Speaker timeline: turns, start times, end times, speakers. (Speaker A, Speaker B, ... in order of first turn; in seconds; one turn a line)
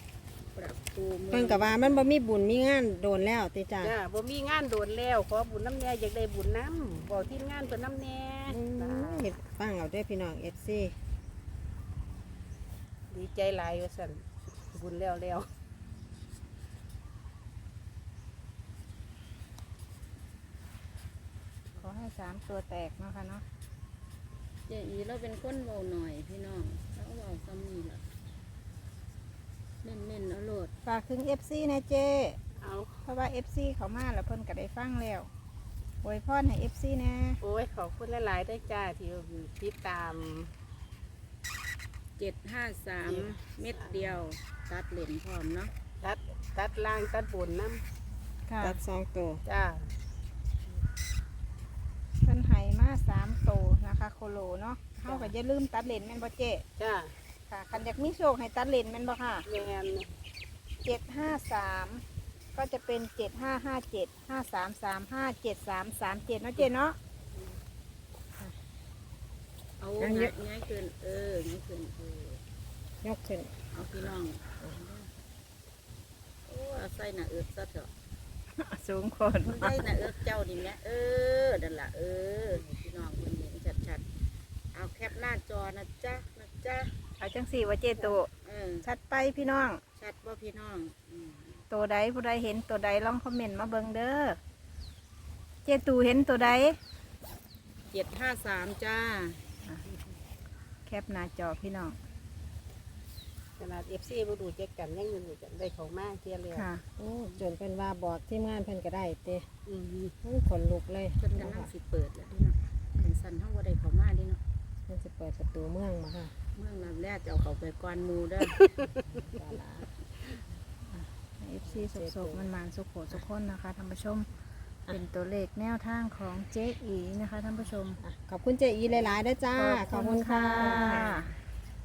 Speaker A: 0.5-2.1
Speaker B: 1.3-3.9
Speaker C: 3.8-9.3
Speaker B: 8.5-10.9
Speaker C: 13.1-15.5
Speaker D: 21.8-23.4
Speaker A: 24.7-28.0
Speaker A: 29.8-30.7
Speaker D: 30.8-32.4
Speaker C: 32.6-32.9
Speaker D: 33.0-35.3
Speaker D: 36.0-37.4
Speaker C: 37.4-40.5
Speaker A: 42.2-45.7
Speaker C: 43.0-44.2
Speaker C: 46.0-47.8
Speaker D: 48.5-48.8
Speaker B: 48.6-49.4
Speaker C: 49.5-49.9
Speaker D: 52.2-56.6
Speaker C: 55.0-55.3
Speaker C: 56.8-57.1
Speaker D: 57.5-59.4
Speaker C: 59.5-60.1
Speaker D: 60.8-62.0
Speaker D: 62.5-67.0
Speaker A: 69.8-72.4
Speaker B: 70.0-70.3
Speaker B: 73.0-73.5
Speaker A: 73.7-75.1
Speaker A: 76.5-77.9
Speaker D: 78.6-79.8
Speaker A: 79.5-84.0
Speaker A: 84.7-86.9
Speaker D: 87.2-88.3
Speaker A: 88.4-88.8
Speaker D: 88.8-89.8
Speaker A: 90.0-91.6
Speaker D: 91.7-94.4
Speaker D: 95.6-96.8
Speaker A: 97.9-99.4
Speaker D: 100.8-102.0
Speaker C: 103.6-106.7
Speaker D: 106.5-106.8
Speaker B: 107.0-109.5
Speaker C: 109.7-110.1
Speaker B: 110.2-111.7
Speaker A: 111.2-114.4
Speaker B: 114.9-116.3
Speaker A: 116.5-118.6
Speaker C: 118.5-118.9
Speaker B: 119.1-119.9
Speaker D: 120.9-124.3
Speaker B: 121.7-122.4
Speaker D: 124.9-128.0
Speaker B: 128.0-131.2
Speaker D: 129.5-131.3